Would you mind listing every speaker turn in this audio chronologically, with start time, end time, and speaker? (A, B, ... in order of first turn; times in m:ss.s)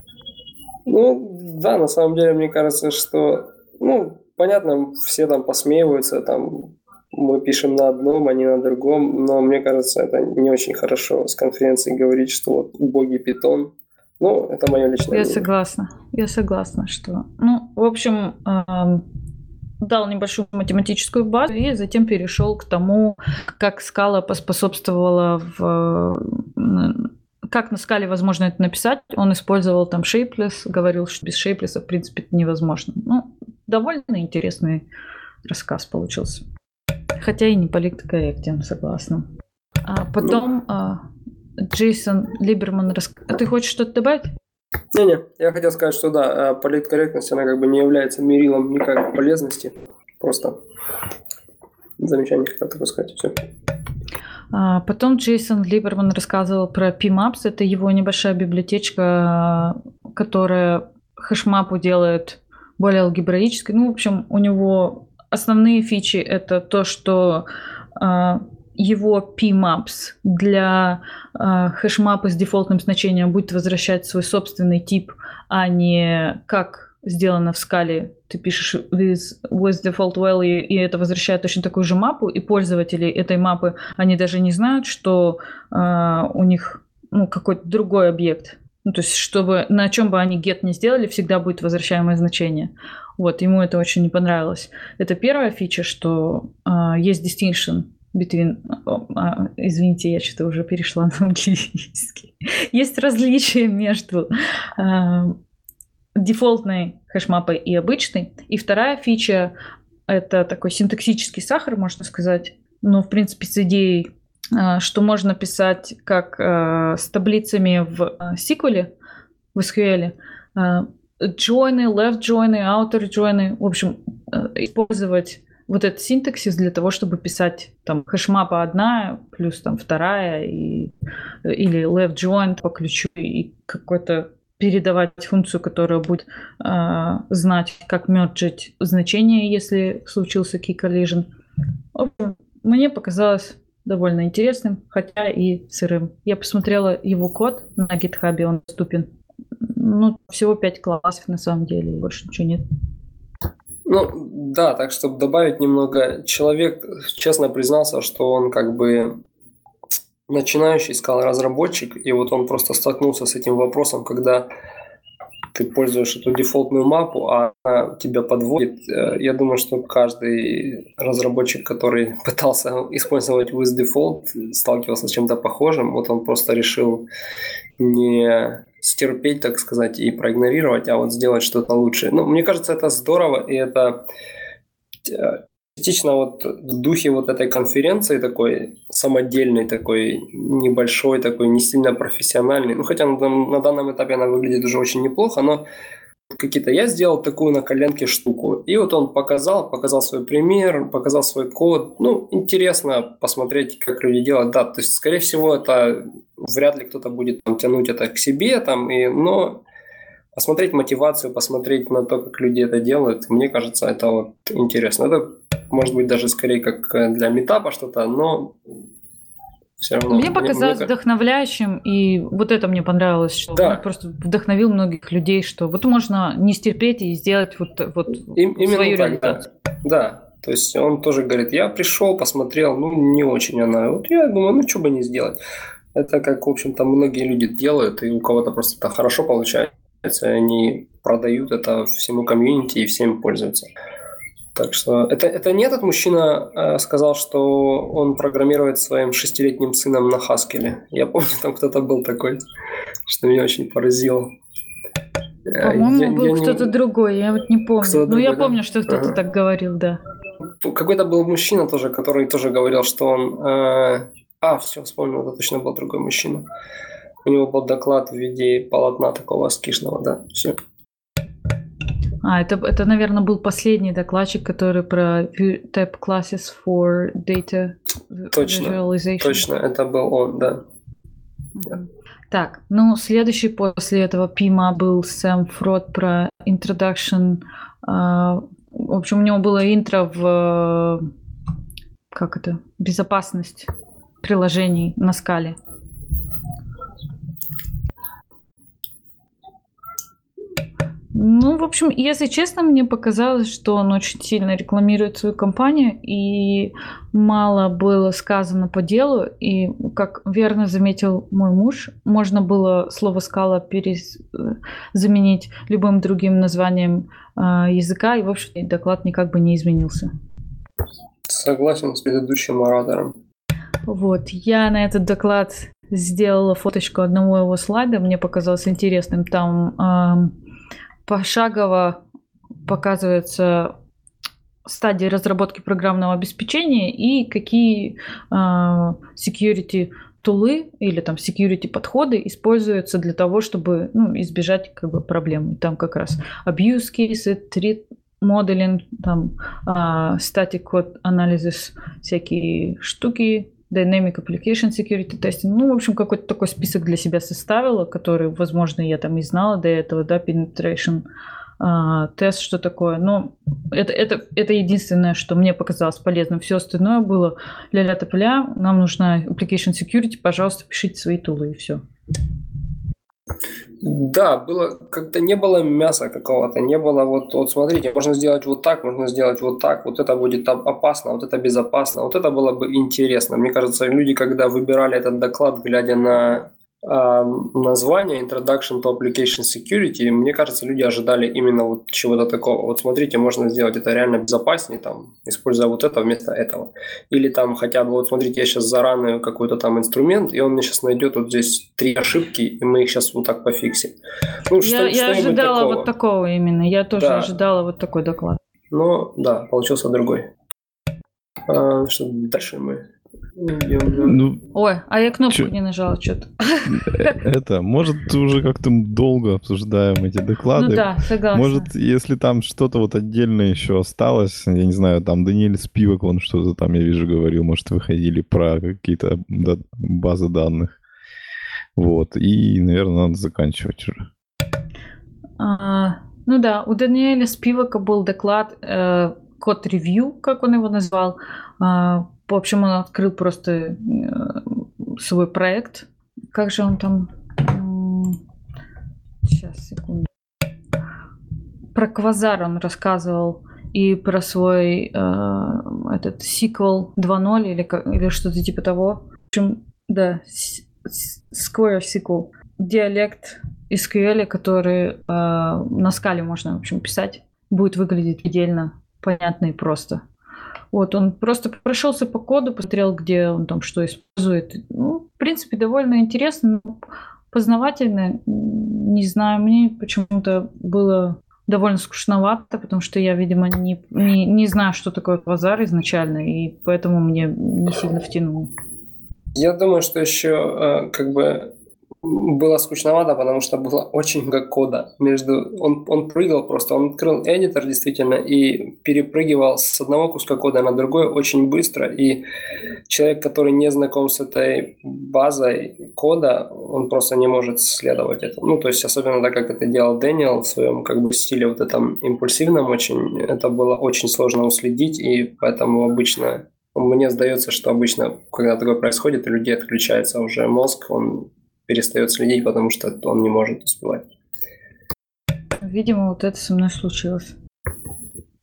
0:00.9-0:15.5 A
0:15.1-0:19.1 B
0:19.8-0:34.8 B
0:35.4-0:36.4 B
0:37.2-0:39.2 B
0:39.8-0:41.0 B
0:41.6-0:44.3 B
0:44.9-0:50.6 A
0:52.0-0:53.4 A
0:54.5-1:45.4 B
1:46.2-1:49.5 B
1:50.1-1:58.9 B
1:59.5-2:10.9 B
2:11.4-2:21.3 B
2:22.0-2:29.1 B
2:29.6-2:32.6 B
2:33.9-2:39.2 A
2:40.3-2:44.5 A
2:45.6-2:57.1 A
2:57.8-3:04.1 A
3:05.1-3:15.7 A
3:16.3-3:29.6 A
3:30.3-3:38.6 A
3:39.8-3:40.9 A
3:40.1-3:49.4 B
3:43.6-3:43.8 A
3:48.4-3:55.4 A
3:56.0-4:03.7 A
4:04.6-4:12.4 A
4:13.1-4:14.4 A
4:15.5-4:16.7 A
4:15.6-4:20.0 B
4:17.8-4:19.2 A
4:20.6-4:26.5 A
4:27.2-4:30.6 A
4:32.2-4:39.5 B
4:38.3-4:40.6 A
4:41.6-4:51.1 B
4:52.1-4:53.7 B
4:54.2-4:55.6 B
5:01.1-5:20.1 B
5:21.3-5:23.2 A
5:23.9-5:30.4 B
5:31.1-5:32.0 B
5:32.7-5:33.8 B
5:34.7-6:01.0 B
6:01.6-6:11.8 B
6:13.8-6:44.0 A
6:44.5-6:45.9 A
6:44.6-6:48.4 B
6:47.0-6:47.3 A
6:48.7-6:50.3 A
6:51.5-6:52.9 A
6:53.4-6:54.2 A
6:54.1-6:54.4 C
6:54.5-6:57.2 B
6:56.7-7:10.8 C
7:00.5-7:01.7 B
7:11.8-7:14.1 C
7:15.4-7:28.2 B
7:29.2-7:30.1 B
7:31.7-7:50.0 B
7:50.7-8:08.5 B
8:09.4-8:11.5 A
8:12.0-8:22.2 A
8:22.9-8:44.0 A
8:45.6-8:47.4 B